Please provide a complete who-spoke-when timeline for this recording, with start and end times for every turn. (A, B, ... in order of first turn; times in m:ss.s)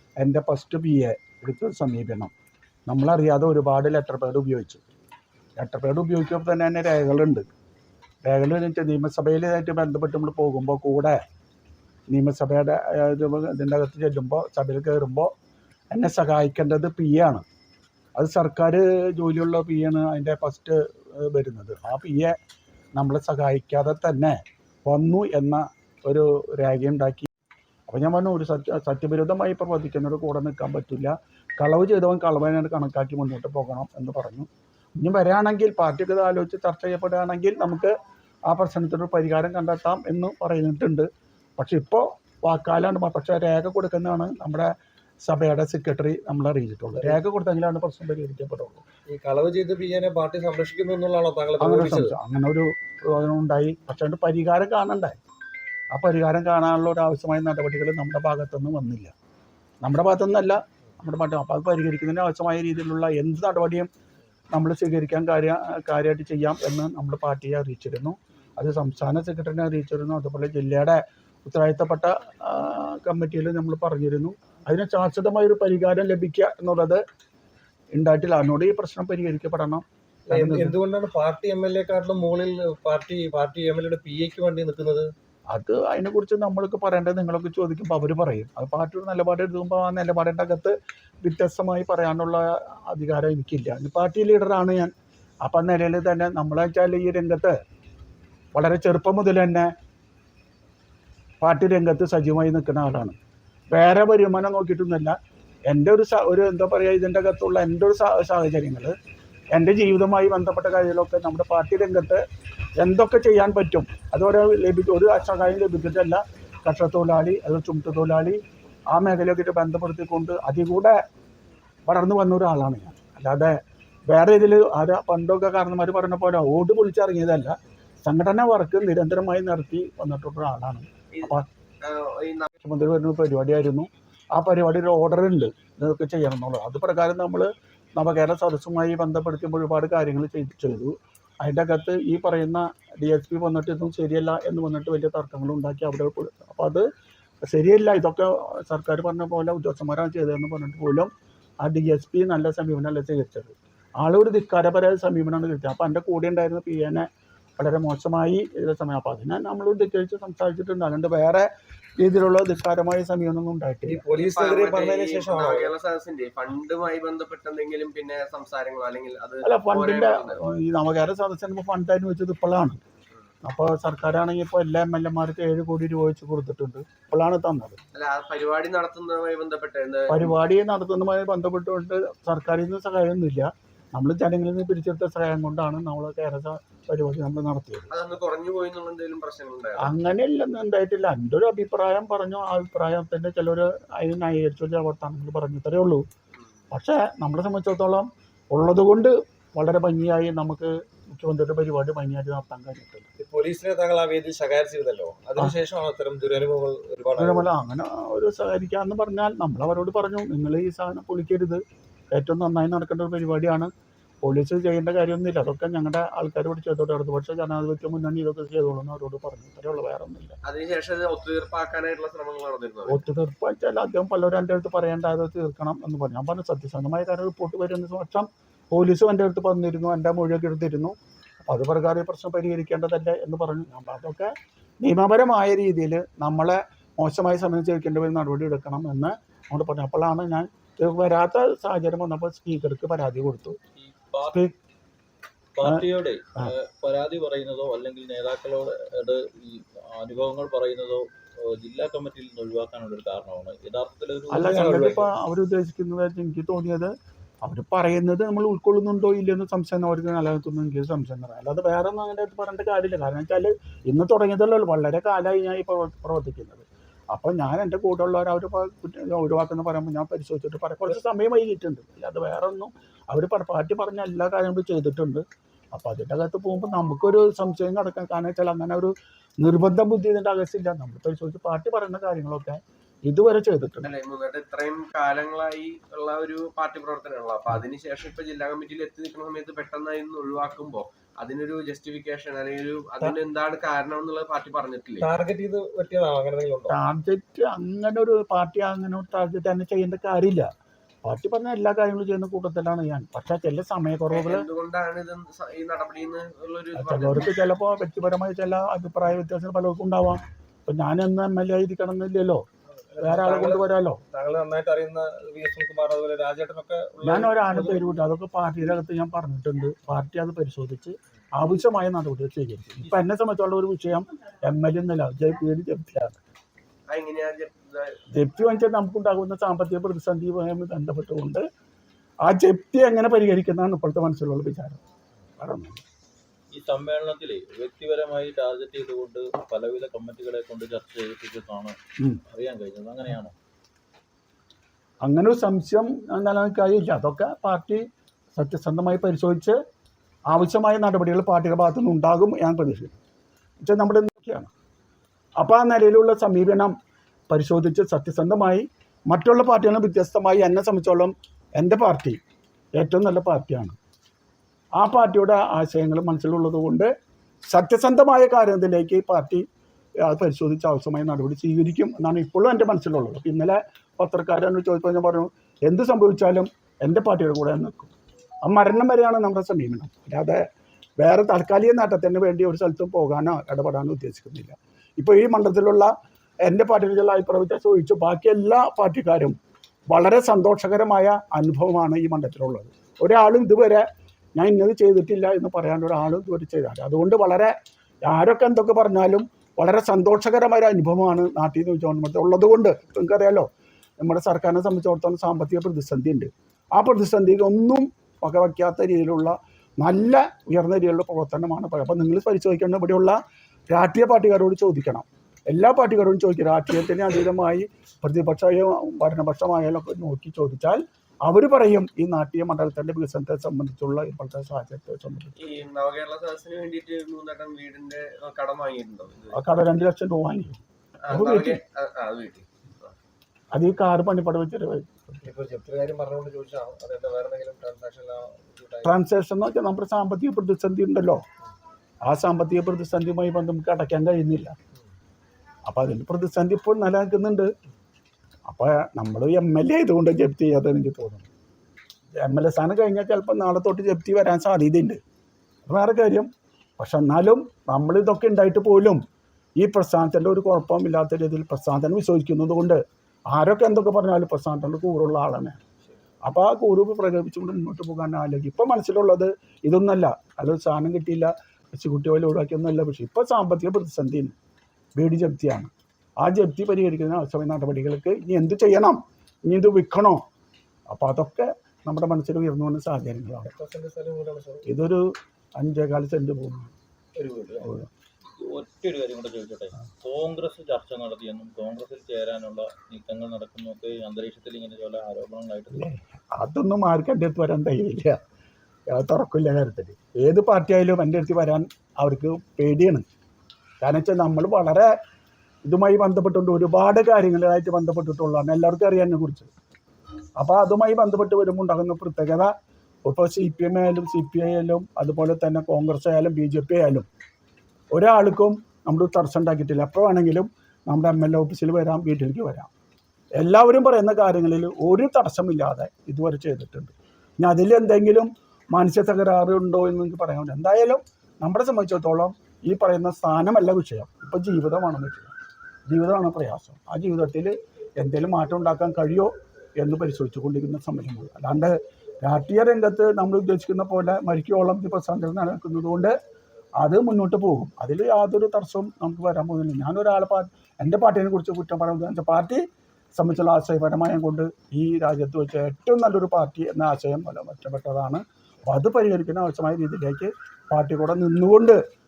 0:00.2-0:02.3 A
0:02.9-0:04.8 A
0:05.6-0:07.5 A
0:08.2-0:11.2 A
0:12.1-0:15.3 A
0:15.9-0:17.4 A
0:18.2-0:22.4 A
0:23.0-0:27.3 A
0:27.9-0:37.9 A
0:38.5-0:41.1 A
0:41.6-0:44.7 A
0:45.3-0:48.8 A
0:49.1-0:52.1 B
0:51.6-0:55.2 A
0:55.9-0:59.1 A
0:59.8-1:03.9 A
1:04.5-1:17.0 A
1:17.9-1:20.8 A
1:20.3-1:25.1 B
1:25.5-1:34.9 A
1:35.4-1:37.6 A
1:38.6-1:39.7 A
1:41.4-1:43.2 A
1:43.7-1:45.1 A
1:45.7-1:48.9 A
1:49.5-1:52.2 A
1:52.8-1:58.4 A
1:58.9-2:00.9 A
2:01.9-2:03.5 A
2:04.1-2:11.4 A
2:11.1-2:12.5 C
2:12.6-2:26.8 A
2:27.5-2:31.1 A
2:31.6-2:37.0 A
2:37.6-2:41.5 A
2:42.0-2:44.0 A
2:43.9-2:45.7 B
2:44.2-2:50.4 C
2:49.4-2:52.8 A
2:53.4-2:57.8 A
2:57.9-3:00.2 C
3:00.1-3:07.9 A
3:07.9-3:10.0 C
3:09.8-3:16.0 A
3:16.7-3:23.0 A
3:23.2-3:27.5 B
3:27.2-3:31.6 A
3:32.1-3:33.7 A
3:34.2-3:40.4 A
3:40.4-3:43.1 C
3:42.9-3:51.0 A
3:51.5-4:03.6 A
4:03.8-4:04.4 D
4:04.3-4:04.5 A
4:05.6-4:14.8 D
4:14.3-4:16.9 A
4:14.5-4:15.1 B
4:17.4-4:43.9 A
4:43.8-4:55.1 C
4:55.0-4:56.8 B
4:56.7-5:00.5 A
5:01.0-5:04.4 A
5:04.1-5:07.3 C
5:06.8-5:12.4 A
5:12.8-5:17.9 B
5:13.0-5:14.0 A
5:17.0-5:26.2 A
5:26.9-5:28.0 C
5:28.1-5:31.4 A
5:32.2-5:34.8 A
5:35.4-5:35.8 A
5:36.5-5:41.8 D
5:42.3-5:43.3 D
5:45.0-5:47.8 A
5:48.4-5:49.6 A
5:50.3-5:53.0 A
5:53.6-5:54.5 A
5:55.4-5:56.7 A
5:57.3-6:02.2 A
6:02.8-6:03.8 A
6:04.8-6:06.9 A
6:07.5-6:09.4 A
6:10.0-6:20.4 A
6:21.0-6:25.9 A
6:26.4-6:29.4 A
6:29.9-6:33.8 A
6:34.4-6:37.5 A
6:38.0-6:43.5 A
6:44.0-6:53.2 A
6:53.7-7:05.4 A
7:05.4-7:09.4 C
7:09.3-7:11.6 A
7:11.0-7:12.9 C
7:13.5-7:15.2 A
7:15.2-7:19.0 B
7:18.8-7:21.2 A
7:22.1-7:24.6 A
7:25.7-7:27.5 A
7:28.5-7:31.3 A
7:32.2-7:35.0 A
7:35.7-7:39.0 A
7:39.6-7:45.6 A
7:46.2-7:54.4 A
7:55.0-8:00.2 A
8:00.9-8:03.5 A
8:03.4-8:04.7 B
8:04.7-8:05.0 A
8:05.6-8:06.7 A
8:07.2-8:07.7 B
8:07.6-8:07.9 A
8:08.4-8:15.9 D
8:15.7-8:18.2 A
8:18.9-8:23.0 A
8:23.8-8:24.9 A
8:25.6-8:29.5 A
8:30.4-8:32.5 A
8:33.1-8:37.1 A
8:37.9-8:42.7 A
8:43.4-8:55.4 A
8:55.9-9:06.1 A
9:06.8-9:12.6 A
9:13.2-9:21.8 A